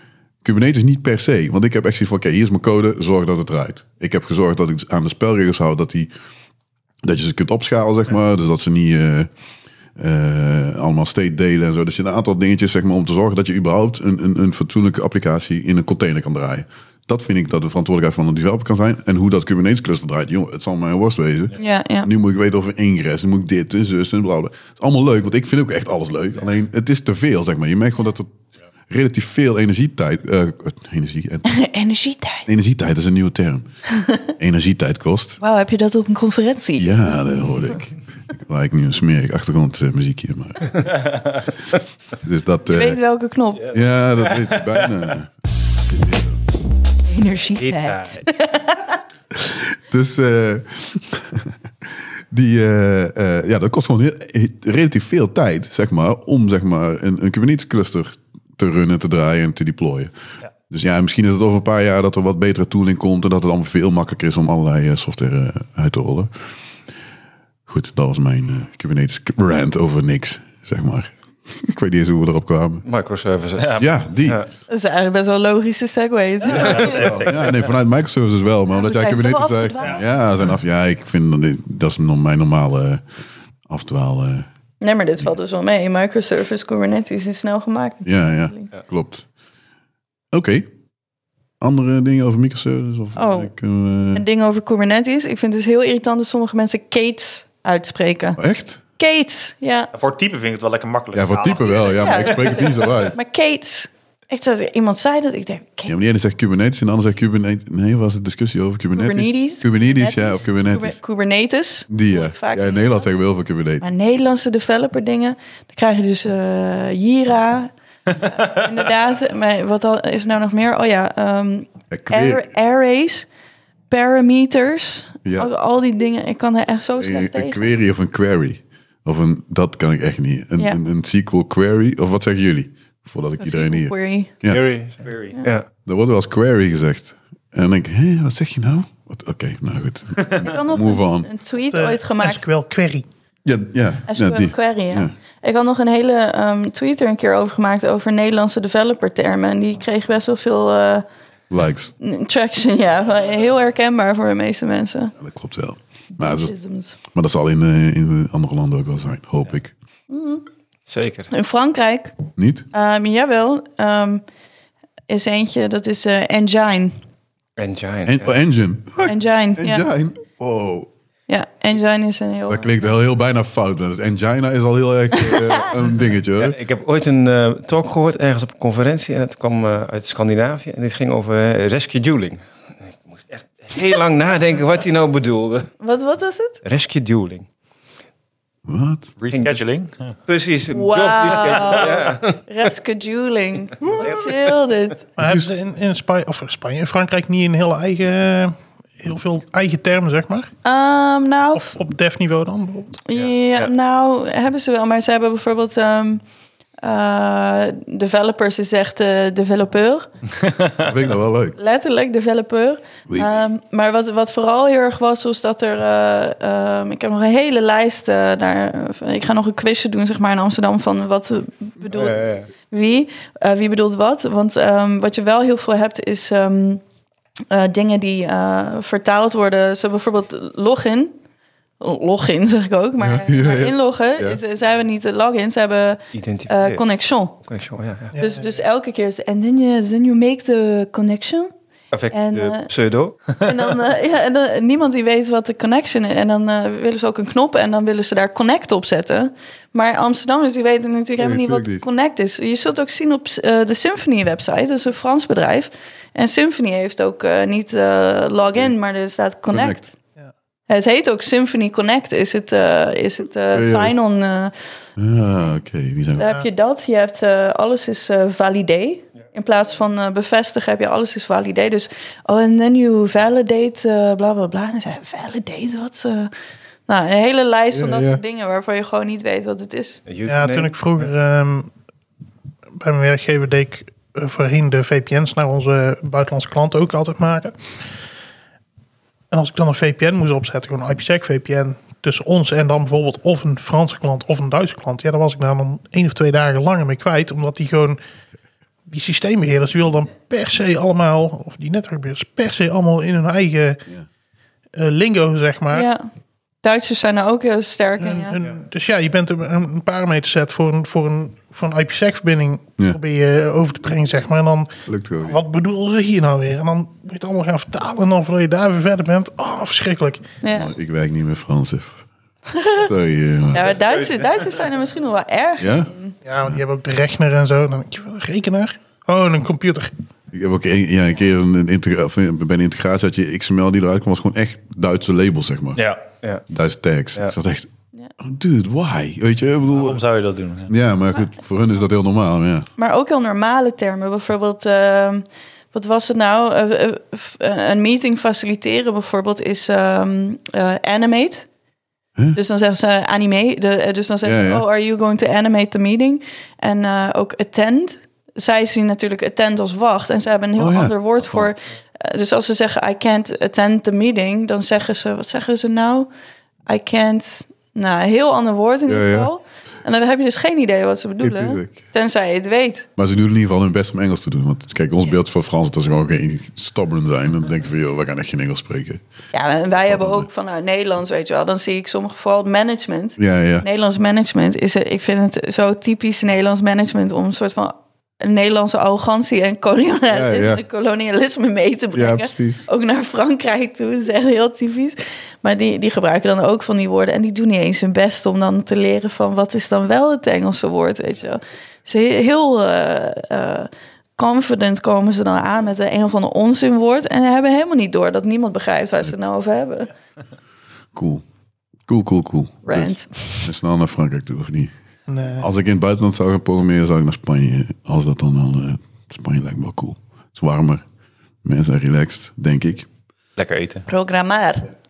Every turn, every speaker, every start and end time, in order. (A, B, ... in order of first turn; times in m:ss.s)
0:00.4-0:06.1 A
0:07.0-0:09.3 A
0:10.0-0:28.3 A
0:21.6-0:22.1 B
0:28.9-0:31.5 A
0:31.5-0:32.5 B
0:32.5-0:33.7 A
0:33.9-0:34.3 B
0:34.4-0:35.4 A
0:35.4-0:36.9 B
0:36.8-0:41.0 A
0:42.2-0:43.0 A
0:42.7-0:43.8 B
0:43.6-0:45.3 A
0:45.9-0:46.4 A
0:47.1-0:48.9 B
0:47.6-0:48.3 C
0:49.3-1:00.1 A
1:00.7-1:06.3 A
1:07.7-1:12.8 A
1:12.8-1:14.5 C
1:13.6-1:13.9 D
1:13.8-1:14.4 A
1:14.7-1:17.2 B
1:16.5-1:17.6 D
1:16.5-1:23.0 A
1:18.7-1:20.0 B
1:23.7-1:24.5 A
1:24.8-1:28.7 B
1:28.0-1:29.3 A
1:30.3-1:30.7 A
1:31.6-1:34.2 A
1:33.2-1:33.5 B
1:34.1-1:38.4 B
1:38.4-1:38.8 A
1:39.0-1:39.9 B
1:39.9-1:42.7 D
1:41.1-1:43.2 A
1:41.8-1:45.9 B
1:45.9-1:51.0 A
1:49.0-1:53.1 B
1:51.9-1:53.8 A
1:53.8-2:03.3 B
2:01.9-2:02.5 A
2:03.9-2:07.7 B
2:05.2-2:05.5 A
2:07.0-2:14.6 A
2:13.4-2:14.3 B
2:14.5-2:15.7 C
2:15.0-2:15.3 D
2:15.9-2:21.3 A
2:20.4-2:22.4 B
2:21.7-2:23.0 E
2:23.4-2:25.1 A
2:24.1-2:31.1 B
2:31.5-2:31.9 A
2:32.0-2:35.1 B
2:35.2-2:36.5 A
2:36.2-2:37.0 B
2:37.1-2:39.7 A
2:40.1-2:40.4 B
2:40.9-2:41.3 C
2:41.3-2:42.2 B
2:42.4-2:42.7 A
2:42.7-2:44.2 B
2:45.1-2:46.9 B
2:47.6-2:48.4 C
2:48.1-2:50.9 A
2:49.0-2:49.9 B
2:51.3-2:52.8 B
2:52.5-2:56.6 A
2:55.2-2:55.6 B
2:56.4-3:05.7 C
3:05.8-3:06.6 B
3:06.6-3:07.5 C
3:08.7-3:09.1 A
3:09.2-3:10.2 D
3:09.3-3:09.6 C
3:10.3-3:12.4 C
3:10.7-3:15.0 B
3:13.9-3:14.5 C
3:15.2-3:20.5 E
3:20.6-3:21.8 B
3:21.5-3:23.0 E
3:23.1-3:26.2 B
3:23.1-3:23.7 C
3:26.8-3:30.1 B
3:30.8-3:31.6 A
3:31.6-3:46.8 B
3:33.1-3:33.4 A
3:41.9-3:42.5 C
3:47.5-3:51.1 B
3:51.8-3:57.4 B
3:53.0-3:54.4 A
3:56.1-3:56.8 C
3:57.4-3:58.2 C
3:58.1-3:58.4 E
3:58.2-4:01.5 B
4:01.9-4:03.2 C
4:02.1-4:02.7 B
4:03.3-4:19.9 B
4:11.2-4:11.8 A
4:19.5-4:19.9 A
4:20.7-4:24.5 B
4:23.5-4:24.0 A
4:25.0-4:26.3 A
4:26.2-4:36.3 B
4:26.2-4:26.5 E
4:36.9-4:40.0 B
4:37.7-4:38.2 A
4:40.1-4:41.1 C
4:40.3-4:41.7 E
4:42.8-4:47.6 E
4:49.3-4:58.0 E
4:58.9-5:03.8 E
5:04.8-5:05.9 E
5:05.7-5:06.0 B
5:06.6-5:08.4 B
5:08.0-5:14.7 E
5:14.9-5:15.4 A
5:15.2-5:20.2 E
5:20.4-5:20.7 B
5:20.5-5:22.1 A
5:22.5-5:22.9 B
5:22.8-5:23.8 A
5:23.5-5:26.2 B
5:23.9-5:24.1 C
5:25.6-5:26.6 A
5:26.2-5:29.9 E
5:30.3-5:35.8 A
5:35.8-5:36.0 D
5:36.5-5:37.7 A
5:38.2-5:40.0 A
5:39.7-5:40.7 D
5:40.7-5:42.7 A
5:42.8-5:51.5 B
5:52.4-6:06.1 B
5:54.2-5:54.6 A
6:00.6-6:01.5 A
6:06.7-6:12.9 B
6:08.9-6:09.3 A
6:11.2-6:11.8 A
6:13.0-6:19.0 A
6:19.3-6:49.9 B
6:19.9-6:20.3 A
6:23.2-6:23.6 A
6:30.1-6:30.6 A
6:31.9-6:32.7 A
6:50.9-6:51.2 A
6:51.9-6:54.7 A
6:52.7-6:53.5 B
6:55.1-6:55.5 E
6:55.4-7:00.8 A
7:01.4-7:02.9 A
7:03.4-7:03.9 D
7:03.9-7:04.7 B